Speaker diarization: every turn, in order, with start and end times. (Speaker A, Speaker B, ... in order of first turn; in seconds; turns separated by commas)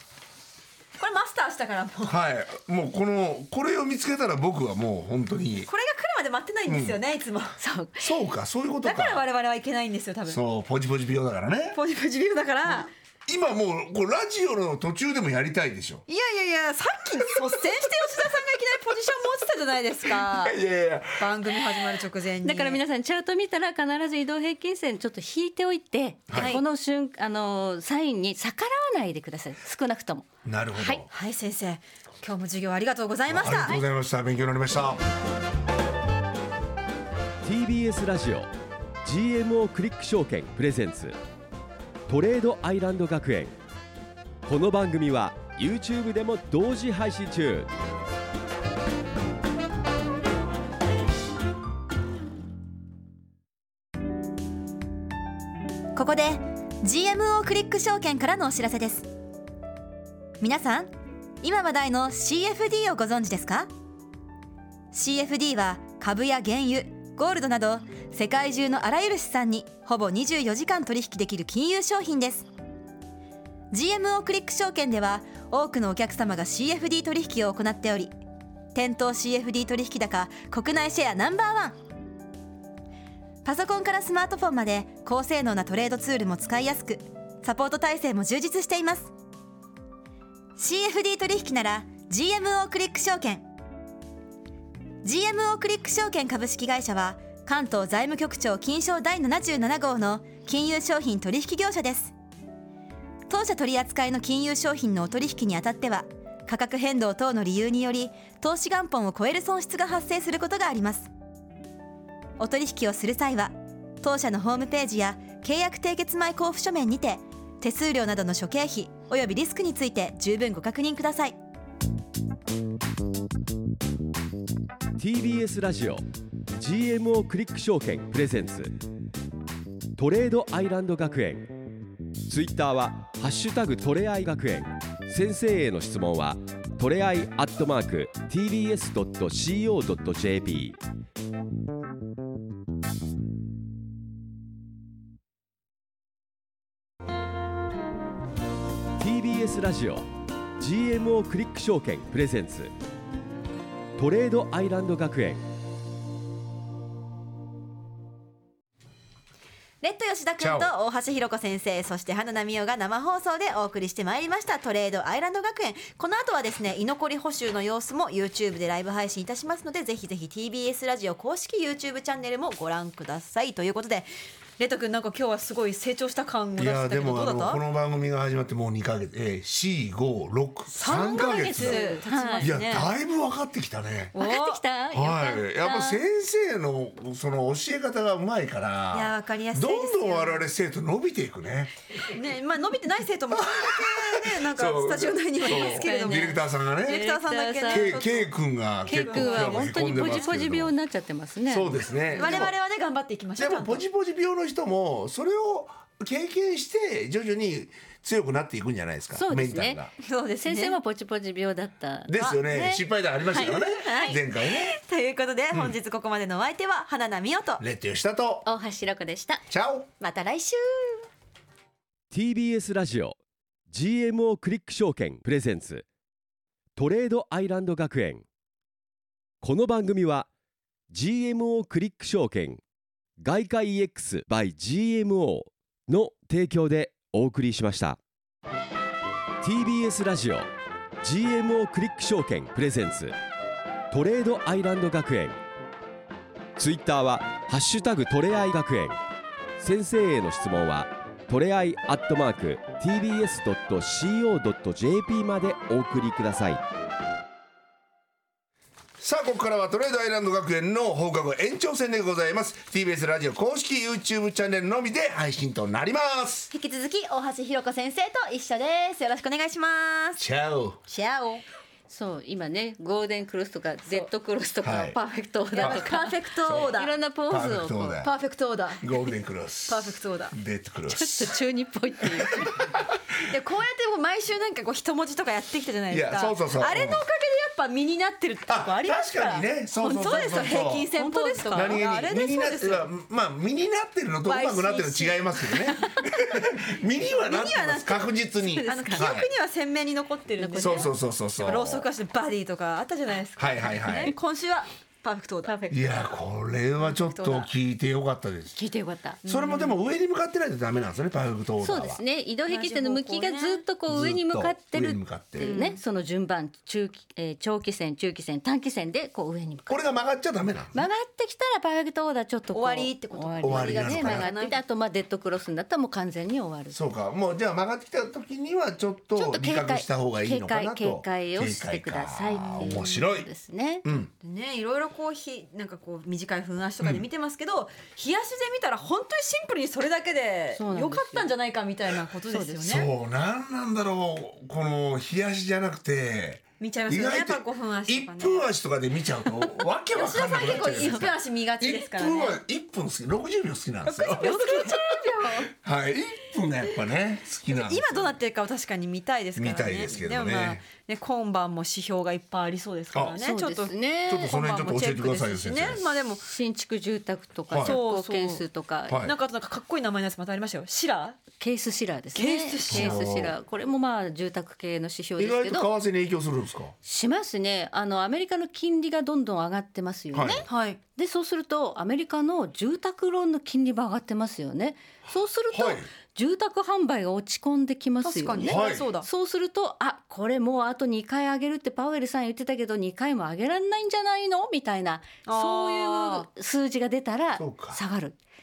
Speaker A: 1.0-2.2, Speaker B: 2.1-5.7, Speaker A: 5.7-7.6, Speaker B: 6.7-7.0, Speaker C: 7.6-8.1, Speaker B: 8.0-9.3, Speaker A: 8.8-10.4, Speaker B: 10.3-11.8, Speaker A: 11.7-12.9, Speaker B: 13.3-16.0, Speaker A: 16.1-20.6, Speaker B: 20.1-22.0, Speaker A: 21.2-22.8, Speaker C: 22.4-31.1, Speaker B: 26.3-26.6, Speaker A: 26.3-26.6, Speaker B: 30.4-31.1, Speaker A: 31.1-33.8, Speaker B: 33.3-35.0, Speaker D: 37.4-38.5, Speaker D: 39.0-41.2, Speaker D: 42.1-43.5, Speaker D: 44.4-47.7, Speaker A: 56.0-59.1, Speaker A: 60.4-60.9, Speaker A: 61.4-63.7, Speaker A: 64.9-72.5, Speaker A: 73.7-78.1, Speaker A: 78.8-81.8, Speaker A: 83.4-89.1, Speaker A: 90.6-93.5, Speaker A: 95.0-102.1, Speaker A: 103.3-111.1, Speaker A: 112.4-121.4, Speaker D: 125.0-128.8, Speaker D: 130.0-131.6, Speaker D: 132.3-140.8, Speaker D: 149.0-150.1, Speaker D: 150.6-152.7, Speaker D: 154.0-155.4, Speaker A: 159.8-177.6, Speaker B: 160.4-160.7, Speaker B: 176.6-181.8, Speaker A: 180.8-182.9, Speaker C: 180.8-182.5, Speaker B: 182.4-184.2, Speaker A: 184.2-184.6, Speaker C: 184.2-186.0, Speaker B: 184.9-191.7, Speaker A: 188.9-190.5, Speaker A: 192.1-198.3, Speaker B: 193.3-197.1, Speaker C: 195.5-196.3, Speaker C: 196.9-198.0, Speaker B: 197.7-200.7, Speaker A: 198.9-200.3, Speaker C: 198.9-202.5, Speaker B: 201.5-202.5, Speaker A: 202.1-203.8, Speaker B: 203.4-209.9, Speaker C: 209.1-209.8, Speaker A: 210.0-210.8, Speaker C: 210.4-214.2, Speaker B: 212.1-214.8, Speaker A: 213.3-217.6, Speaker B: 217.6-218.5, Speaker C: 218.4-219.4, Speaker B: 219.5-219.9, Speaker A: 220.0-221.1, Speaker D: 222.1-223.2, Speaker D: 223.7-225.8, Speaker D: 226.8-228.2, Speaker D: 229.4-230.3, Speaker D: 230.9-232.6, Speaker D: 233.2-238.0, Speaker D: 239.4-240.5, Speaker D: 241.0-243.2, Speaker D: 243.9-245.4, Speaker D: 246.6-249.0, Speaker D: 249.6-256.6, Speaker B: 259.0-266.5, Speaker A: 266.5-270.2, Speaker B: 270.2-270.8, Speaker A: 270.9-271.4, Speaker C: 271.9-278.0, Speaker B: 274.6-275.0, Speaker A: 275.5-276.9, Speaker B: 275.6-275.8, Speaker B: 276.5-276.8, Speaker B: 277.3-278.1, Speaker A: 278.0-278.9, Speaker B: 278.8-281.4, Speaker A: 279.7-280.4, Speaker C: 280.9-282.6, Speaker B: 282.5-283.0, Speaker A: 283.3-292.9, Speaker B: 285.9-287.0, Speaker B: 288.5-290.9, Speaker C: 290.9-291.8, Speaker B: 291.5-299.3, Speaker A: 294.2-295.8, Speaker A: 297.1-298.1, Speaker C: 298.4-299.1, Speaker A: 298.6-305.6, Speaker C: 300.4-300.9, Speaker B: 300.6-301.9, Speaker B: 303.4-304.1, Speaker C: 305.5-306.1, Speaker B: 305.7-308.6, Speaker A: 306.8-307.5, Speaker C: 308.6-309.2, Speaker A: 309.2-309.8, Speaker B: 309.2-312.0, Speaker C: 311.6-319.8, Speaker A: 312.5-313.6, Speaker B: 313.9-315.5, Speaker A: 315.4-315.8, Speaker B: 319.7-320.8, Speaker C: 320.7-326.8, Speaker A: 322.5-324.6, Speaker B: 323.4-324.3, Speaker B: 326.7-333.3, Speaker C: 329.1-333.9, Speaker A: 332.6-332.9, Speaker B: 333.8-334.1, Speaker A: 334.2-342.9, Speaker B: 336.8-337.1, Speaker C: 340.6-341.3, Speaker C: 342.3-342.6, Speaker B: 342.6-354.4, Speaker A: 346.6-348.5, Speaker A: 349.9-352.4, Speaker A: 353.9-355.5, Speaker C: 354.2-355.5, Speaker B: 355.5-358.1, Speaker A: 357.5-363.7, Speaker B: 359.4-360.6, Speaker B: 362.9-363.2, Speaker C: 363.2-365.1, Speaker B: 364.1-365.9, Speaker A: 364.3-366.2, Speaker C: 366.2-369.1, Speaker B: 367.5-367.8, Speaker A: 367.6-368.4, Speaker B: 368.9-369.1, Speaker A: 369.0-371.2, Speaker C: 371.4-375.7, Speaker A: 372.1-373.0, Speaker B: 372.7-373.4, Speaker B: 375.2-376.8, Speaker C: 376.9-398.2, Speaker B: 380.1-380.5, Speaker A: 380.5-380.8, Speaker B: 385.5-385.9, Speaker A: 388.0-389.1, Speaker B: 388.4-388.9, Speaker A: 395.3-396.3, Speaker B: 397.4-397.8